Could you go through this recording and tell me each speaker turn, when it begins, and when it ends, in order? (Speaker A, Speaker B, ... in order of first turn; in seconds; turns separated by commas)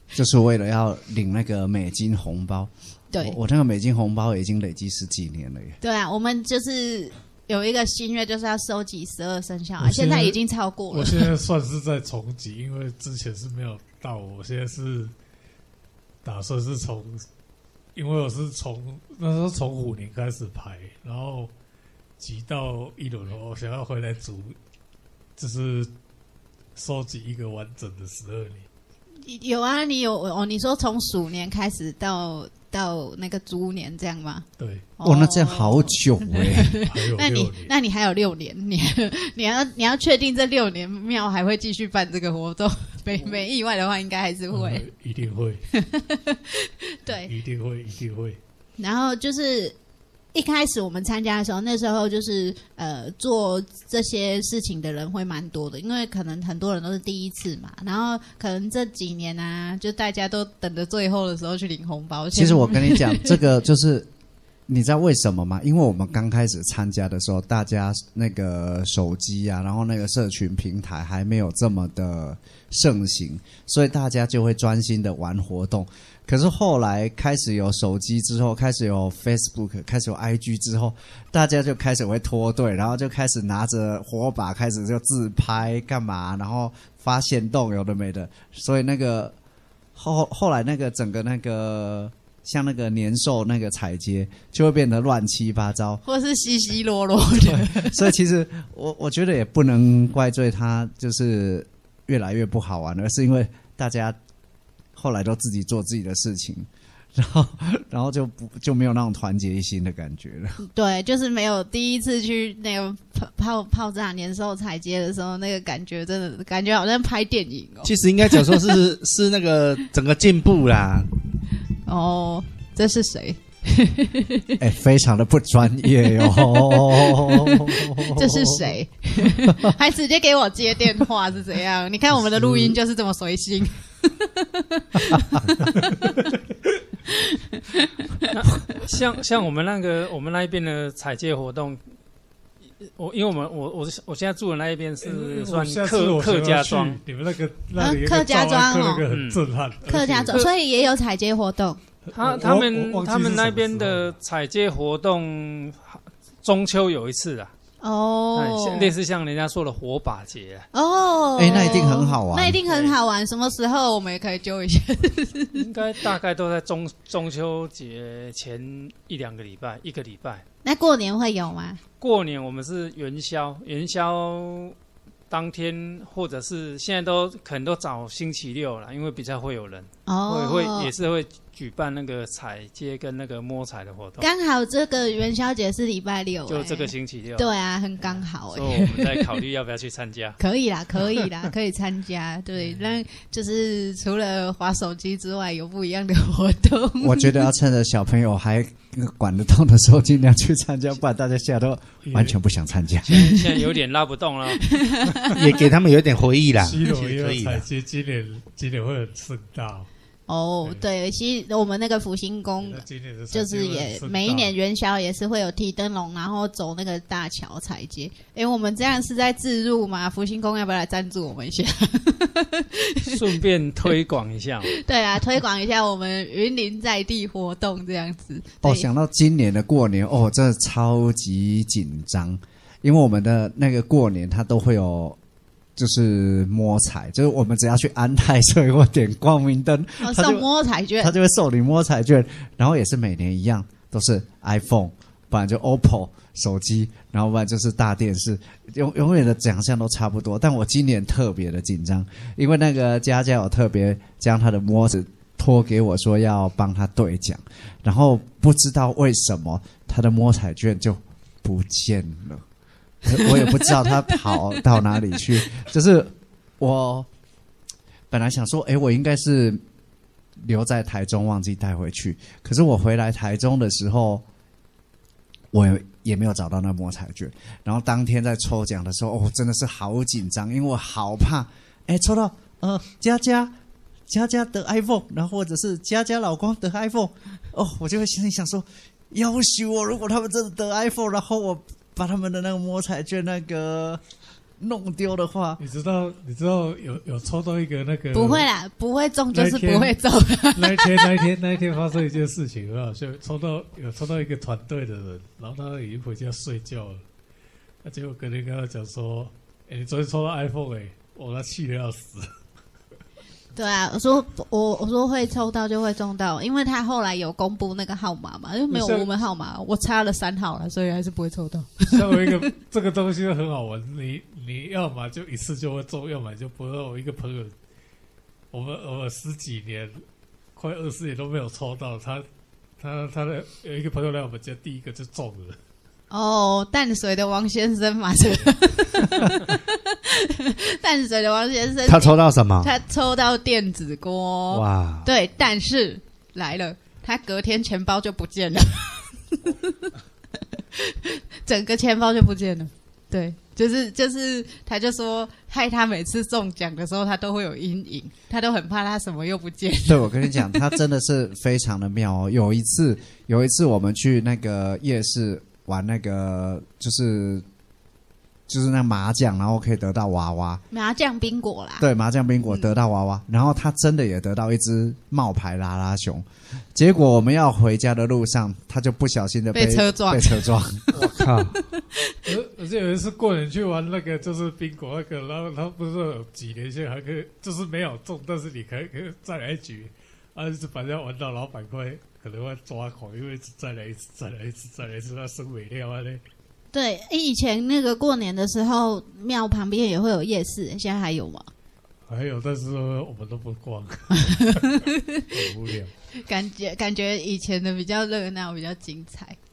Speaker A: 0.1-5.8, Speaker B: 3.1-3.4, Speaker B: 5.8-11.3, Speaker C: 9.8-10.4, Speaker C: 10.9-15.1, Speaker C: 16.2-17.2, Speaker C: 17.9-21.5, Speaker C: 22.2-24.6, Speaker C: 25.4-25.9, Speaker C: 26.7-28.6, Speaker B: 29.2-34.5, Speaker C: 34.6-34.9, Speaker B: 35.0-44.9, Speaker A: 35.0-36.8, Speaker C: 36.8-37.7, Speaker C: 44.5-45.6, Speaker B: 45.7-47.3, Speaker C: 47.2-48.4, Speaker B: 48.8-49.8, Speaker B: 50.3-63.4, Speaker A: 62.3-64.1, Speaker A: 64.7-89.3, Speaker A: 89.9-96.0, Speaker B: 96.0-98.1, Speaker A: 97.4-104.2, Speaker A: 104.9-110.6, Speaker B: 110.6-118.8, Speaker D: 117.8-121.1, Speaker B: 121.8-124.6, Speaker A: 124.6-128.7, Speaker B: 126.1-136.0, Speaker A: 129.2-129.7, Speaker B: 137.1-138.8, Speaker E: 138.3-141.8, Speaker E: 142.8-147.0, Speaker C: 145.0-150.4, Speaker B: 147.8-149.0, Speaker E: 149.1-149.4, Speaker B: 149.8-151.8, Speaker C: 152.0-154.2, Speaker E: 152.1-157.5, Speaker B: 157.8-158.9, Speaker E: 158.3-160.7, Speaker B: 160.7-165.6, Speaker A: 161.4-162.6, Speaker E: 161.5-161.9, Speaker E: 162.7-162.9, Speaker E: 165.5-170.4, Speaker B: 170.6-171.8, Speaker E: 172.0-174.7, Speaker E: 175.3-184.2, Speaker B: 180.1-180.9, Speaker B: 184.2-189.2, Speaker E: 186.5-187.5, Speaker E: 188.0-190.4, Speaker B: 190.4-197.5, Speaker A: 197.0-203.5, Speaker C: 202.0-202.3, Speaker E: 203.1-204.7, Speaker B: 204.6-205.7, Speaker D: 205.2-207.6, Speaker C: 206.6-209.9, Speaker B: 210.3-223.2, Speaker C: 212.6-214.5, Speaker E: 223.0-224.8, Speaker B: 224.7-228.9, Speaker A: 228.6-235.2, Speaker A: 235.8-240.4, Speaker B: 240.0-241.1, Speaker A: 241.0-262.4, Speaker A: 263.0-267.1, Speaker A: 268.1-269.6, Speaker A: 270.4-274.2, Speaker A: 275.5-283.5, Speaker A: 284.1-294.0, Speaker A: 294.6-295.6, Speaker C: 295.6-298.5, Speaker B: 298.1-301.2, Speaker C: 299.3-300.0, Speaker C: 300.5-307.0, Speaker C: 307.8-312.3, Speaker B: 313.5-322.4, Speaker C: 318.7-319.1, Speaker C: 321.9-327.5, Speaker C: 328.5-330.0, Speaker C: 330.5-332.2, Speaker C: 332.8-335.6, Speaker B: 336.1-349.9, Speaker D: 341.9-342.7, Speaker D: 344.5-345.1, Speaker B: 350.5-360.8, Speaker A: 359.9-367.4, Speaker A: 368.5-370.6, Speaker B: 370.7-371.9, Speaker A: 371.8-380.9, Speaker B: 372.5-372.7, Speaker B: 379.5-382.1, Speaker C: 380.9-381.2, Speaker D: 381.2-381.6, Speaker C: 382.2-396.2, Speaker B: 396.7-401.5, Speaker C: 402.1-405.9, Speaker B: 404.2-405.2, Speaker B: 406.2-409.4